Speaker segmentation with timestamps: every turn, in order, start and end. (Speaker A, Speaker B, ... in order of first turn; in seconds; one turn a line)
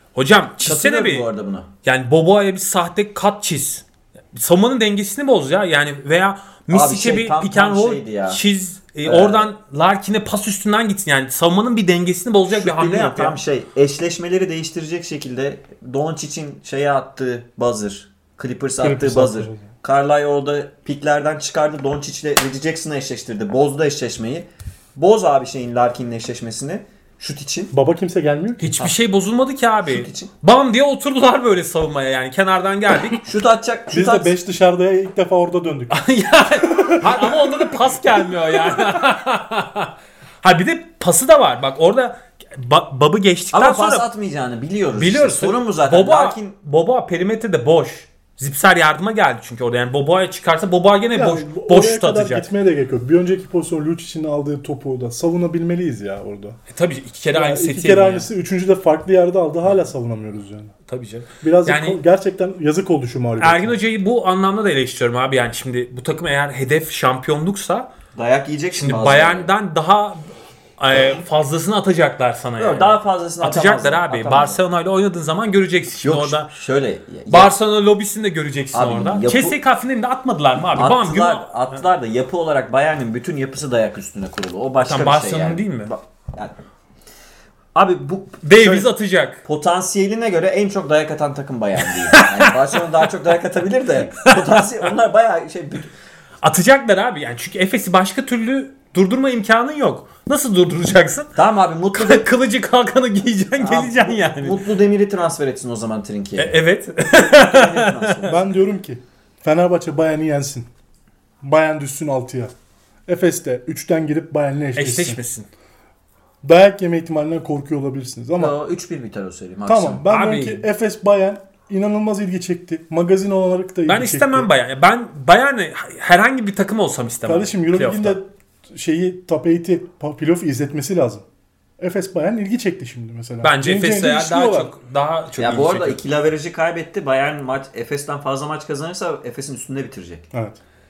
Speaker A: 0.1-1.3
Speaker B: 0.6-1.7
Speaker A: 1.8-13.4
Speaker B: 6.7-8.4
Speaker B: 9.0-9.5
Speaker B: 12.5-27.7
Speaker C: 18.8-19.6
Speaker C: 27.7-28.7
Speaker A: 28.6-33.2
Speaker B: 29.8-30.3
Speaker B: 33.2-34.3
Speaker C: 33.9-36.0
Speaker A: 35.9-44.0
Speaker C: 36.6-37.6
Speaker B: 43.5-46.5
Speaker A: 45.0-52.5
Speaker C: 51.1-56.6
Speaker A: 56.7-58.3
Speaker C: 57.3-60.7
Speaker A: 60.9-62.0
Speaker C: 61.4-63.8
Speaker A: 63.4-67.9
Speaker B: 68.2-69.5
Speaker A: 68.7-70.2
Speaker A: 70.8-76.5
Speaker B: 72.6-74.6
Speaker B: 76.0-77.5
Speaker A: 77.3-81.6
Speaker B: 78.7-79.6
Speaker B: 80.7-86.5
Speaker A: 84.8-85.9
Speaker B: 87.7-88.9
Speaker A: 88.4-89.4
Speaker B: 89.4-95.9
Speaker A: 91.8-92.8
Speaker A: 94.3-94.9
Speaker A: 96.4-101.3
Speaker B: 101.3-102.3
Speaker A: 101.9-104.6
Speaker B: 103.6-108.4
Speaker A: 106.4-108.3
Speaker C: 108.2-110.7
Speaker C: 111.4-112.5
Speaker C: 113.1-115.2
Speaker A: 114.8-115.5
Speaker C: 116.4-118.6
Speaker B: 118.4-120.0
Speaker C: 119.7-124.5
Speaker A: 120.1-120.6
Speaker A: 123.9-128.2
Speaker C: 127.3-131.2
Speaker C: 131.8-134.7
Speaker A: 133.4-136.0
Speaker B: 135.4-140.2
Speaker C: 140.3-140.6